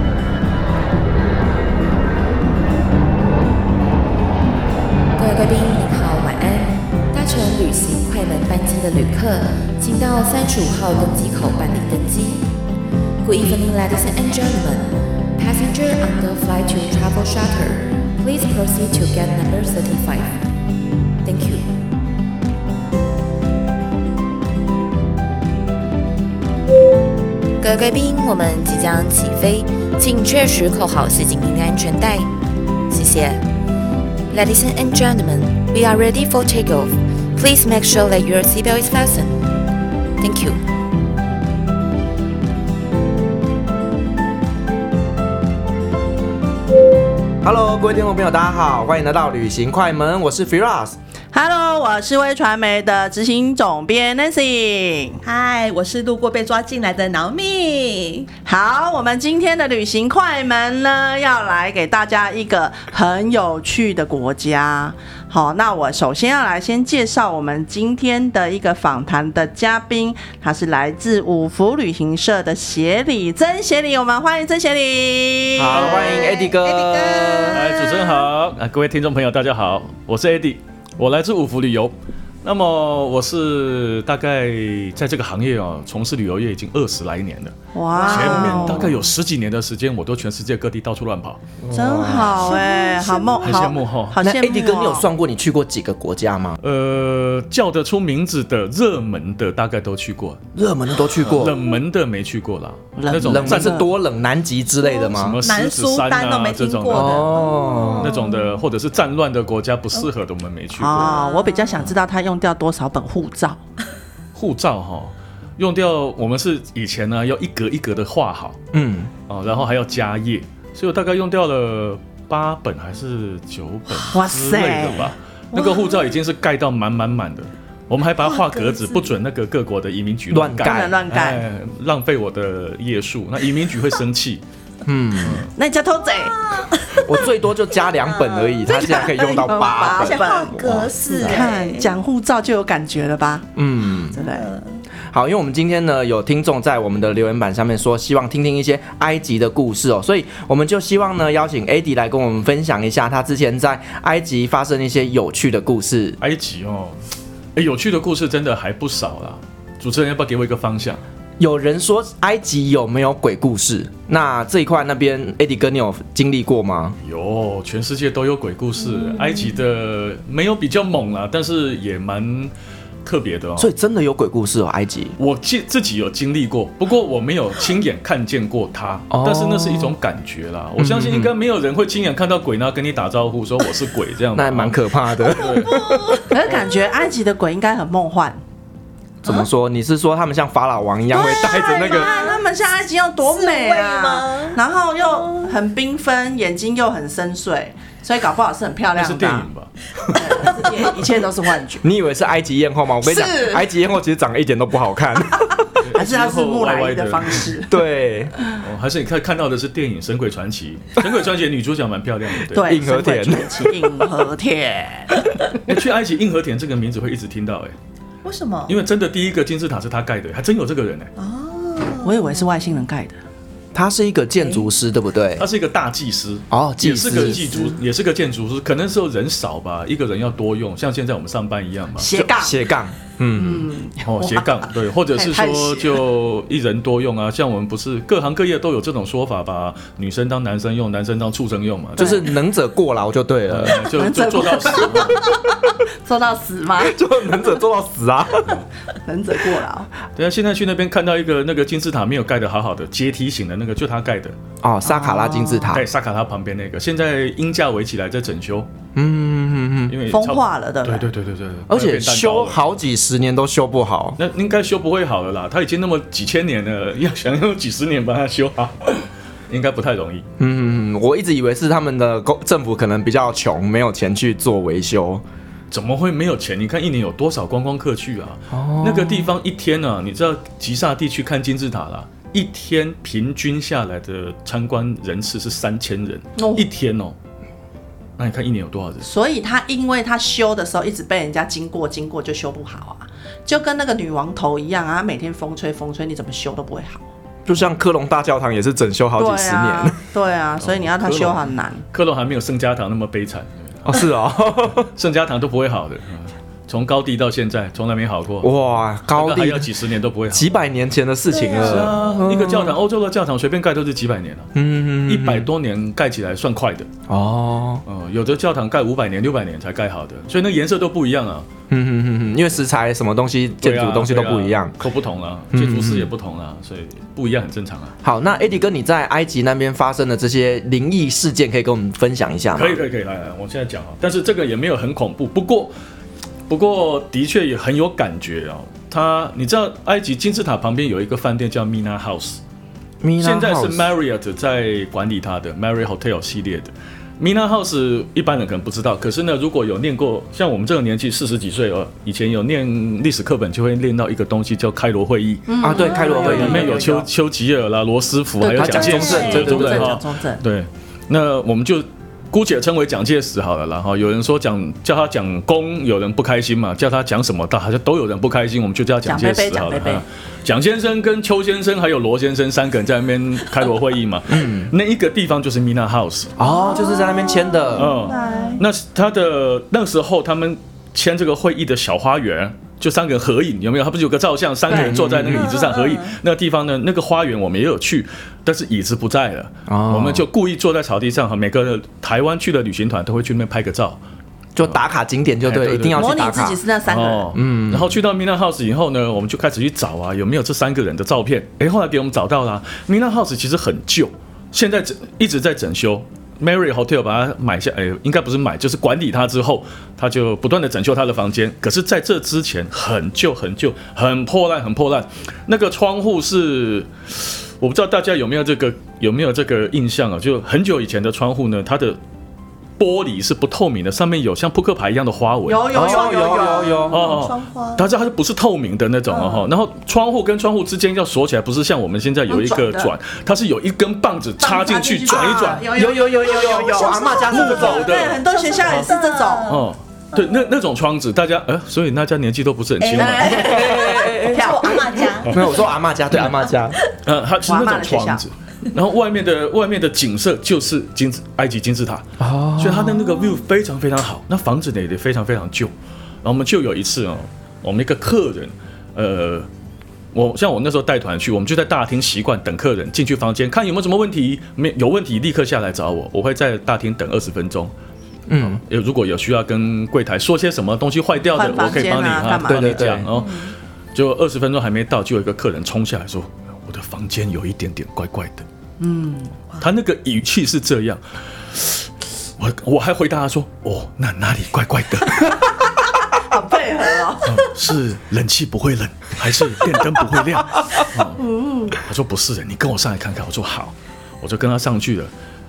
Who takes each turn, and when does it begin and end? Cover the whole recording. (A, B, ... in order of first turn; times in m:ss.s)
0:05.2-0:12.5 A
0:13.2-0:20.4 A
0:21.2-0:21.7 A
0:27.6-0:32.3 A
0:32.9-0:33.4 A
0:34.3-0:39.5 A
0:40.2-0:40.6 A
0:47.4-0:51.0 B
0:51.3-0:55.2 C
0:55.2-0:58.3 D
0:58.4-1:16.0 C
1:15.6-1:17.8 B
1:15.7-1:18.2 D
1:15.7-1:16.1 E
1:17.5-1:31.4 E
1:27.7-1:29.0 C
1:28.0-1:28.6 D
1:31.6-1:32.5 B
1:31.7-1:35.1 C
1:32.1-1:33.6 D
1:33.4-1:34.2 E
1:34.2-1:36.6 B
1:36.6-1:40.4 E
1:40.5-1:41.6 B
1:41.2-1:43.8 E
1:43.0-1:43.9 C
1:43.1-1:45.4 B
1:44.8-1:48.6 D
1:45.1-1:47.3 E
1:46.9-1:48.3 B
1:48.0-1:51.2 E
1:50.8-1:53.6 C
1:51.0-1:51.8 D
1:54.4-1:58.6 E
1:58.7-1:59.1 B
1:59.3-2:14.4 E
2:04.1-2:05.1 C
2:05.5-2:06.2 D
2:08.2-2:09.1 D
2:10.3-2:11.0 B
2:10.6-2:11.4 C
2:14.8-2:15.5 B
2:15.2-2:15.5 E
2:15.6-2:16.4 C
2:16.2-2:21.9 D
2:17.0-2:21.5 B
2:18.9-2:20.6 C
2:21.2-2:23.5 C
2:23.6-2:24.2 B
2:24.1-2:24.5 C
2:24.1-2:24.8 D
2:25.1-2:36.2 B
2:36.2-2:37.0 E
2:37.6-2:41.0 E
2:41.4-2:47.0 B
2:47.0-2:52.5 E
2:48.9-2:49.5 D
2:53.0-2:53.7 E
2:53.6-2:55.2 B
2:55.2-3:05.8 E
2:59.1-3:00.0 B
3:00.8-3:01.3 B
3:04.3-3:06.1 B
3:05.7-3:06.3 D
3:06.3-3:08.4 C
3:09.2-3:12.1 B
3:11.1-3:19.5 C
3:11.5-3:12.4 D
3:13.3-3:15.5 D
3:19.0-3:19.7 E
3:20.1-3:21.8 C
3:21.8-3:25.8 B
3:23.0-3:23.4 C
3:25.8-3:27.4 E
3:26.0-3:27.8 C
3:27.7-3:28.3 B
3:28.6-3:32.8 E
3:32.5-3:35.2 C
3:32.6-3:33.8 B
3:35.6-3:37.8 E
3:38.2-3:38.8 D
3:38.7-3:41.1 E
3:41.2-3:42.8 D
3:42.0-3:43.2 C
3:43.7-3:45.5 B
3:44.4-3:44.7 D
3:45.4-3:52.1 E
3:46.5-3:47.6 B
3:47.1-3:47.8 D
3:52.0-3:52.6 C
3:52.1-3:53.7 B
3:53.4-3:56.0 C
3:54.1-4:02.2 E
4:02.0-4:03.8 B
4:02.0-4:02.2 C
4:03.5-4:05.2 E
4:03.7-4:05.4 C
4:06.0-4:07.0 C
4:06.8-4:08.6 B
4:09.0-4:09.9 C
4:10.2-4:14.4 E
4:14.6-4:15.9 B
4:15.0-4:15.6 C
4:15.7-4:18.7 E
4:19.0-4:20.0 B
4:19.9-4:22.7 E
4:20.1-4:21.1 C
4:21.7-4:24.2 B
4:24.2-4:30.3 E
4:30.4-4:35.2 B
4:35.7-4:47.2 E
4:38.5-4:39.4 B
4:46.4-4:46.7 C
4:48.2-4:49.1 E
4:49.0-4:57.0 C
4:57.5-5:00.0 B
4:59.2-5:01.8 C
5:00.7-5:01.4 E
5:01.9-5:03.9 E
5:03.8-5:04.9 B
5:05.0-5:08.5 E
5:08.4-5:09.7 B
5:09.1-5:10.5 E
5:10.3-5:12.8 B
5:11.3-5:12.0 D
5:11.6-5:14.5 E
5:14.6-5:15.5 B
5:15.1-5:16.9 E
5:17.1-5:17.8 B
5:17.9-5:21.5 E
5:21.7-5:24.7 B
5:23.6-5:27.9 E
5:25.5-5:26.1 B
5:28.0-5:32.8 B
5:32.6-5:35.7 E
5:36.5-5:42.4 E
5:43.0-5:43.9 B
5:43.2-6:16.4 E
5:55.5-5:57.0 C
5:55.6-5:56.9 B
5:55.7-5:56.6 D
5:58.4-6:00.4 C
5:58.4-6:00.0 B
5:58.8-5:59.5 D
6:09.0-6:10.0 C
6:14.3-6:14.7 B
6:16.4-6:17.9 B
6:16.5-6:18.6 D
6:16.7-6:18.6 C
6:17.8-6:34.0 E
6:24.7-6:25.5 B
6:24.7-6:26.2 D
6:29.7-6:30.3 B
6:34.6-6:36.6 B
6:35.4-6:36.2 E
6:36.0-6:37.3 C
6:36.9-7:02.0 E
6:37.3-6:38.0 B
7:02.8-7:05.7 E
7:05.4-7:06.8 C
7:05.7-7:07.1 B
7:05.8-7:07.8 D
7:06.9-7:15.7 E
7:09.1-7:09.4 D
7:12.3-7:12.9 C
7:14.4-7:19.6 C
7:15.7-7:17.9 B
7:16.7-7:20.5 D
7:17.3-7:18.9 E
7:19.5-7:23.6 E
7:22.8-7:25.7 D
7:22.9-7:25.1 C
7:23.4-7:24.5 B
7:25.3-7:26.8 B
7:27.0-7:35.7 E
7:27.5-7:28.2 C
7:32.2-7:33.0 B
7:36.2-7:39.5 E
7:40.1-7:47.7 E
7:48.3-7:48.6 B
7:48.4-7:58.4 E
7:51.4-7:52.9 C
7:52.5-7:53.1 B
7:53.1-7:53.5 D
7:58.8-7:59.3 C
7:59.6-8:01.0 E
8:01.5-8:05.4 E
8:06.1-8:07.5 C
8:07.3-8:11.2 E
8:11.2-8:11.8 C
8:11.7-8:15.1 E